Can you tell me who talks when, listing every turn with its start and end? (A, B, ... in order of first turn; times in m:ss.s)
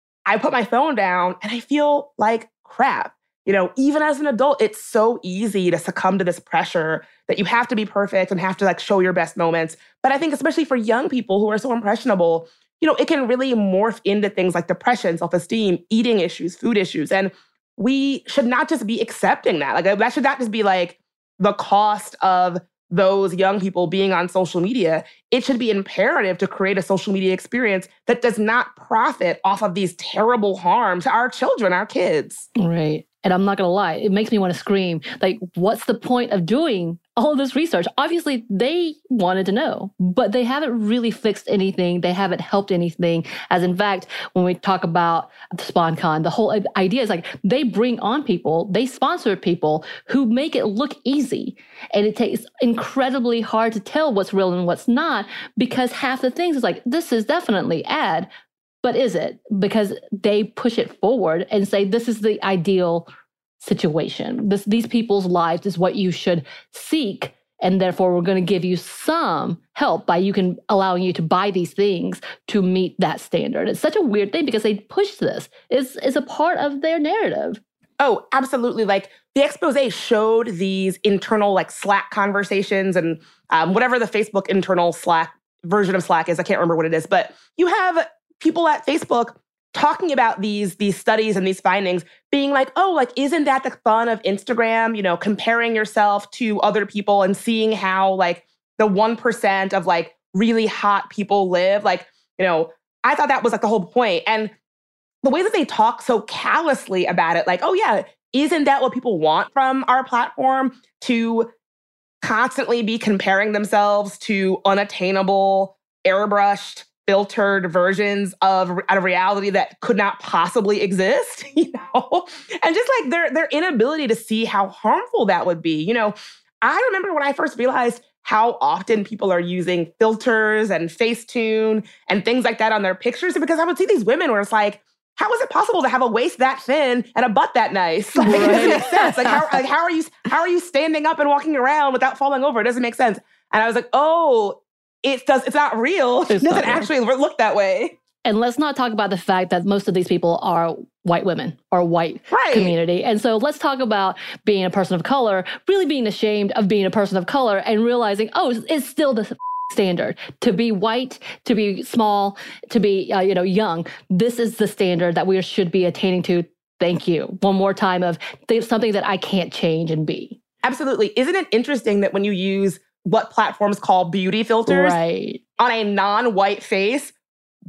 0:00.3-0:32.4 A
0:32.6-0:58.3 B
0:58.8-1:03.1 B
1:03.6-1:17.6 B
1:18.0-1:44.5 A
1:45.2-1:51.5 A
1:52.2-2:27.9 A
2:18.2-2:19.1 B
2:26.3-2:26.9 B
2:28.2-2:50.4 B
2:32.3-2:32.7 A
2:50.6-2:55.0 A
2:54.7-2:55.4 B
2:55.6-2:57.1 A